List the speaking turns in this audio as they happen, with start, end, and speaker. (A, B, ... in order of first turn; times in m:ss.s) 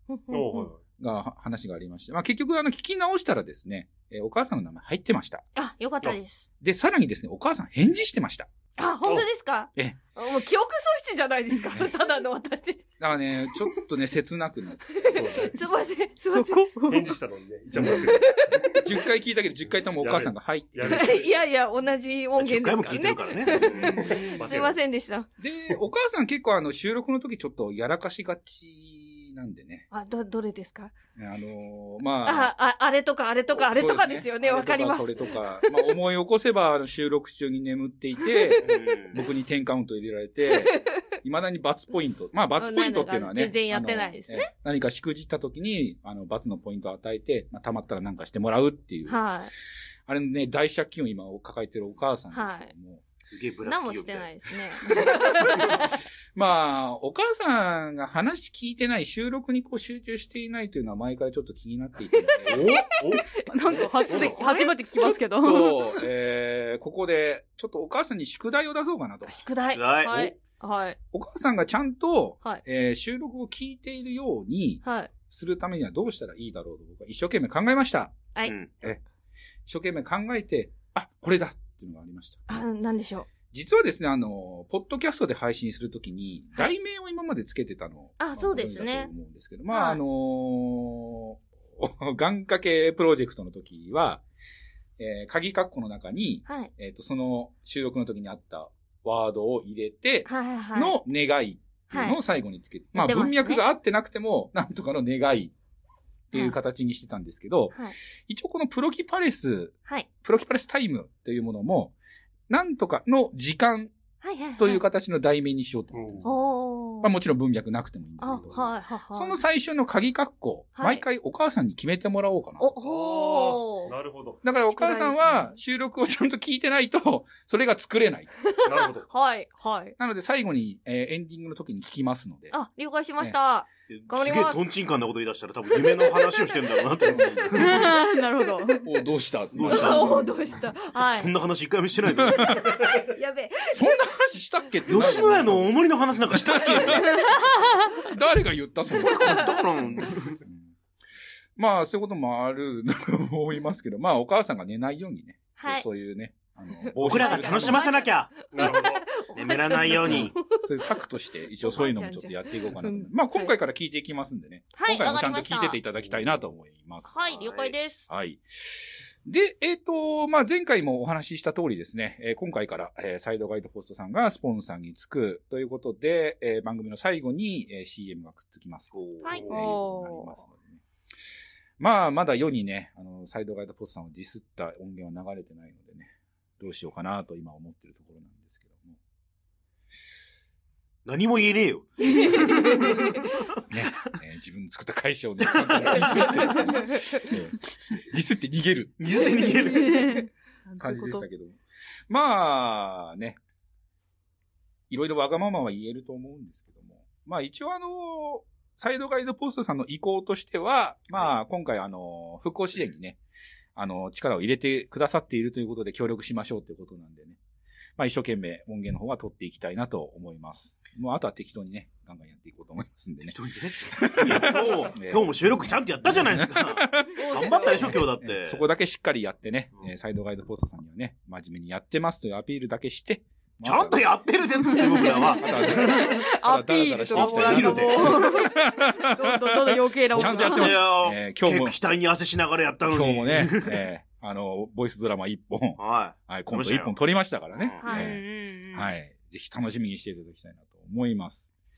0:00.1-0:00.7 A
0:00.3-0:00.8 B
0:01.0-0:05.4 C
0:05.6-0:06.4 A
0:06.6-0:08.5 C
0:08.8-0:12.8 A
0:13.0-0:15.5 C
0:15.2-0:15.6 B
0:15.5-0:16.7 A
0:16.3-0:17.1 D
0:16.9-0:18.7 B
0:17.8-0:18.8 A
0:18.8-0:21.2 C
0:20.0-0:21.4 B
0:20.9-0:25.3 A
0:22.4-0:24.0 E
0:23.5-0:24.8 B
0:25.4-0:29.9 C
0:29.9-0:30.9 A
0:31.2-0:32.5 C
0:32.2-0:35.9 A
0:33.5-0:49.2 C
0:38.6-0:39.2 E
0:40.5-0:40.9 A
0:42.6-0:44.5 A
0:49.1-0:49.5 A
0:50.1-0:53.0 C
0:52.3-0:52.7 A
0:53.3-0:54.3 E
0:53.6-0:55.8 A
0:56.3-1:02.9 C
1:02.3-1:03.2 A
1:02.9-1:04.6 B
1:03.5-1:06.1 D
1:04.0-1:04.7 A
1:05.0-1:09.5 C
1:09.3-1:11.0 A
1:09.7-1:10.4 E
1:11.1-1:18.2 C
1:14.8-1:15.1 A
1:18.4-1:18.7 E
1:19.7-1:22.6 C
1:22.5-1:23.3 A
1:23.5-1:34.2 C
1:28.2-1:29.1 A
1:29.7-1:30.0 A
1:35.0-1:45.5 C
1:40.3-1:41.0 A
1:41.9-1:42.2 A
1:43.0-1:43.6 A
1:46.3-1:52.0 C
1:52.5-1:53.9 C
1:54.2-1:54.8 A
1:54.6-1:56.4 C
1:55.9-1:56.3 B
1:56.2-1:57.1 A
1:57.0-2:03.4 C
1:58.2-1:59.4 A
2:00.8-2:01.0 A
2:02.6-2:04.0 A
2:02.8-2:04.4 B
2:04.4-2:08.3 C
2:04.6-2:05.6 A
2:08.4-2:10.0 A
2:08.7-2:09.1 B
2:10.0-2:12.6 C
2:12.5-2:14.7 A
2:13.9-2:18.0 E
2:15.8-2:16.6 A
2:17.1-2:17.6 C
2:17.6-2:18.9 D
2:18.8-2:20.3 C
2:19.5-2:20.2 E
2:19.7-2:21.3 A
2:21.1-2:22.8 E
2:22.2-2:22.7 C
2:22.9-2:23.9 A
2:23.7-2:27.3 C
2:24.9-2:27.2 E
2:26.8-2:27.6 A
2:28.1-2:30.7 C
2:28.9-2:30.4 E
2:29.1-2:29.5 A
2:31.6-2:37.9 C
2:35.6-2:35.8 A
2:36.8-2:40.6 A
2:37.0-2:38.7 E
2:38.5-2:39.3 B
2:39.3-2:40.4 E
2:40.0-2:47.2 C
2:41.6-2:43.6 A
2:44.8-2:45.8 A
2:46.0-2:46.3 B
2:47.1-2:48.0 A
2:47.2-2:47.8 E
2:48.1-3:00.8 C
2:58.9-2:59.4 E
2:59.4-2:59.7 B
2:59.5-3:00.4 D
3:01.8-3:09.0 C
3:11.0-3:13.1 E
3:12.7-3:13.2 A
3:13.7-3:19.0 C
3:15.4-3:16.6 E
3:19.0-3:20.1 E
3:19.3-3:21.3 D
3:20.8-3:21.6 C
3:22.1-3:23.4 C
3:24.9-3:33.2 C
3:33.8-3:37.4 C
3:38.0-3:43.4 C
3:43.2-3:48.6 E
3:44.0-3:45.4 C
3:46.0-3:54.2 C
3:47.2-3:48.0 D
3:53.6-3:56.2 E
3:54.7-4:00.9 D
3:55.1-4:01.8 C
3:57.1-3:58.3 E
4:00.1-4:03.8 E
4:02.9-4:11.5 C
4:05.8-4:07.0 E
4:07.5-4:08.1 E
4:07.8-4:08.9 A